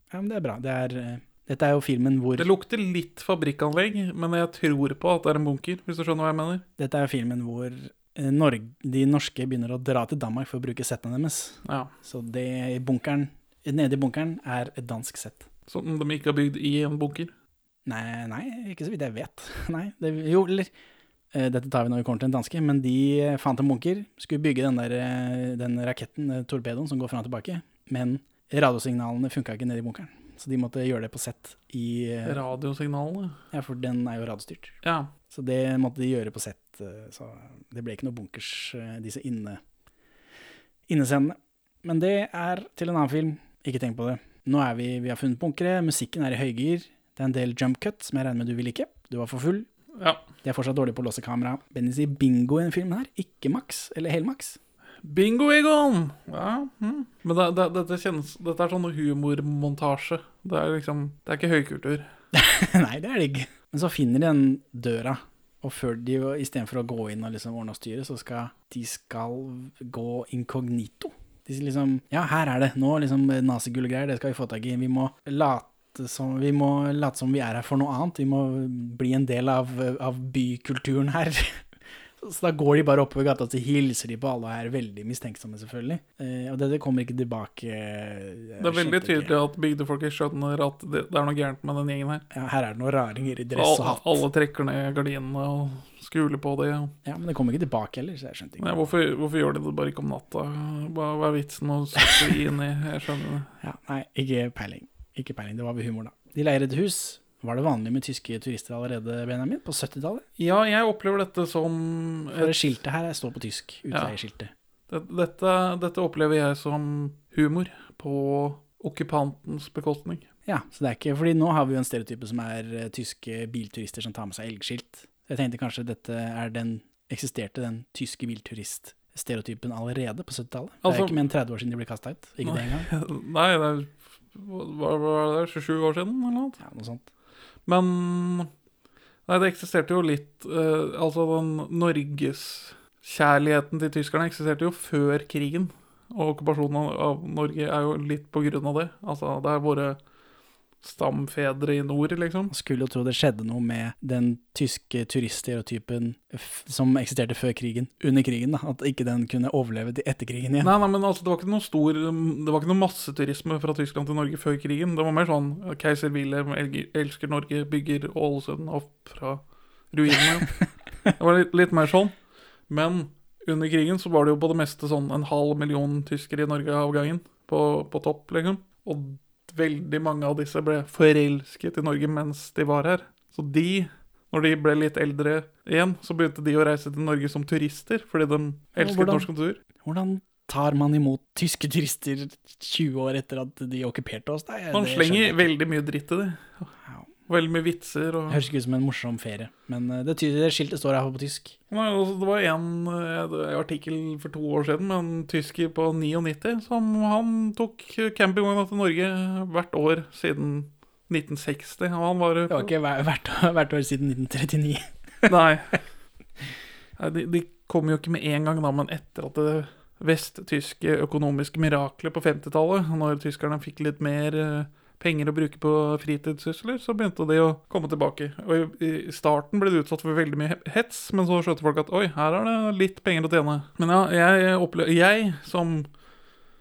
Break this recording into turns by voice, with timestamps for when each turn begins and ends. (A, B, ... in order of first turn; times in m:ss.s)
0:00.1-0:02.5 A
0:02.4-0:06.6 B
0:06.8-0:15.5 A
0:11.6-0:11.9 B
0:15.7-0:17.3 B
0:17.9-0:20.7 A
0:21.3-0:32.4 A
0:32.2-0:33.4 B
0:33.5-0:34.7 A
0:34.8-0:35.1 B
0:35.3-0:39.6 A
0:40.9-0:49.7 A
0:50.0-0:50.2 B
0:50.4-0:54.6 A
0:55.0-1:02.1 B
1:02.3-1:21.6 A
1:22.2-1:29.3 A
1:28.6-1:32.2 B
1:32.3-1:34.2 A
1:33.6-1:36.9 B
1:37.0-1:38.8 A
1:38.6-1:43.5 B
1:43.6-1:50.2 A
1:50.4-1:52.7 B
1:52.4-1:54.5 A
1:54.9-2:00.3 B
2:00.5-2:12.9 A
2:10.8-2:11.2 B
2:12.4-2:16.6 B
2:16.6-2:17.0 A
2:17.6-2:18.5 B
2:19.3-2:30.0 B
2:30.8-2:32.5 B
2:32.5-2:40.7 A
2:40.6-2:50.6 B
2:51.2-2:52.1 B
2:52.7-3:09.6 B
3:08.8-3:09.3 A
3:09.8-3:15.5 A
3:14.7-3:16.7 B
3:17.3-3:18.4 B
3:18.3-3:21.6 A
3:21.7-3:32.7 B
3:32.5-3:35.3 A
3:35.3-3:35.8 B
3:37.0-3:55.9 B